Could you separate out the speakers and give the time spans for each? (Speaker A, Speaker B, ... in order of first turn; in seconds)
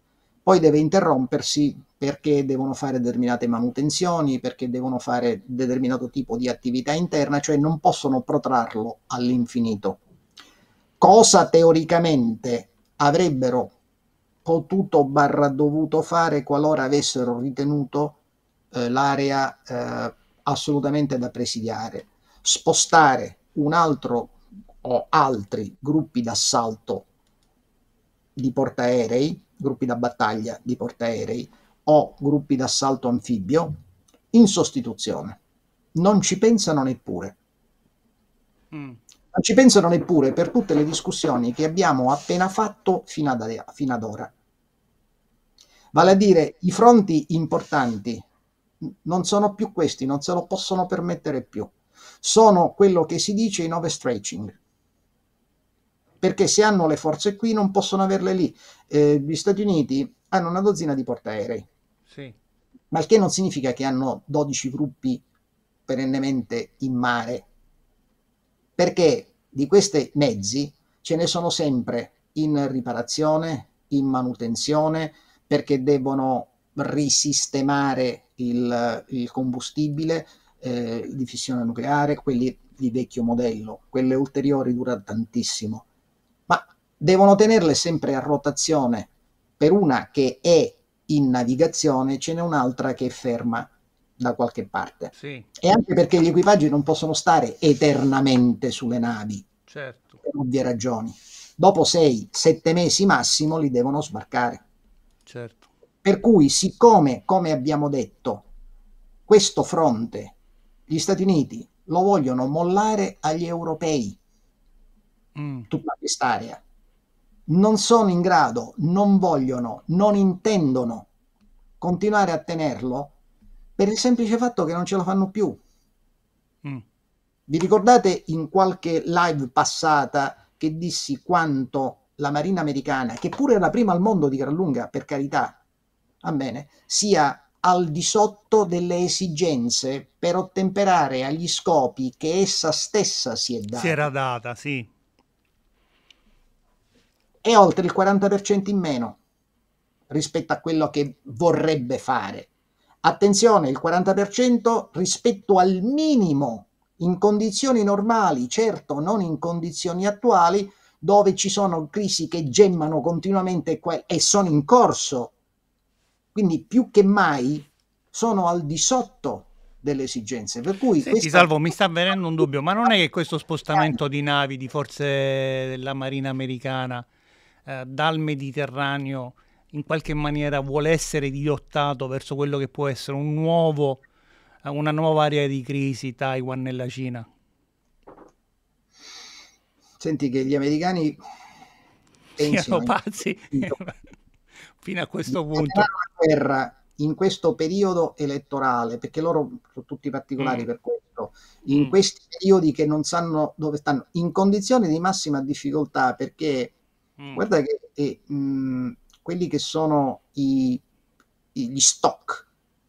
Speaker A: 0.5-10.0, 11.0-13.7, 14.4-18.1, 18.7-27.1, 28.4-33.7, 34.3-35.4, 35.9-37.4, 39.3-44.3, 45.9-48.2, 48.8-54.6, 56.2-61.7, 62.9-65.2, 65.9-67.5, 68.8-85.8, 86.5-99.4, 100.2-104.6, 106.0-108.4, 109.3-110.3, 110.9-114.2, 115.7-116.6, 117.5-121.1, 121.8-123.1, 123.8-125.6, 127.5-135.6, 136.2-144.1, 147.4-149.2, 150.1-152.5, 153.0-165.3, 166.3-171.7, 190.0-191.2, 192.4-192.9, 195.3-206.7, 207.3-210.8, 211.5-212.4
Speaker B: 38.7-39.0, 62.1-62.3, 95.1-95.5, 99.7-100.2, 105.2-105.7, 115.3-115.7, 143.7-144.9, 171.0-177.1, 177.7-184.0, 184.6-187.3, 192.4-194.1, 194.8-195.9, 200.4-200.6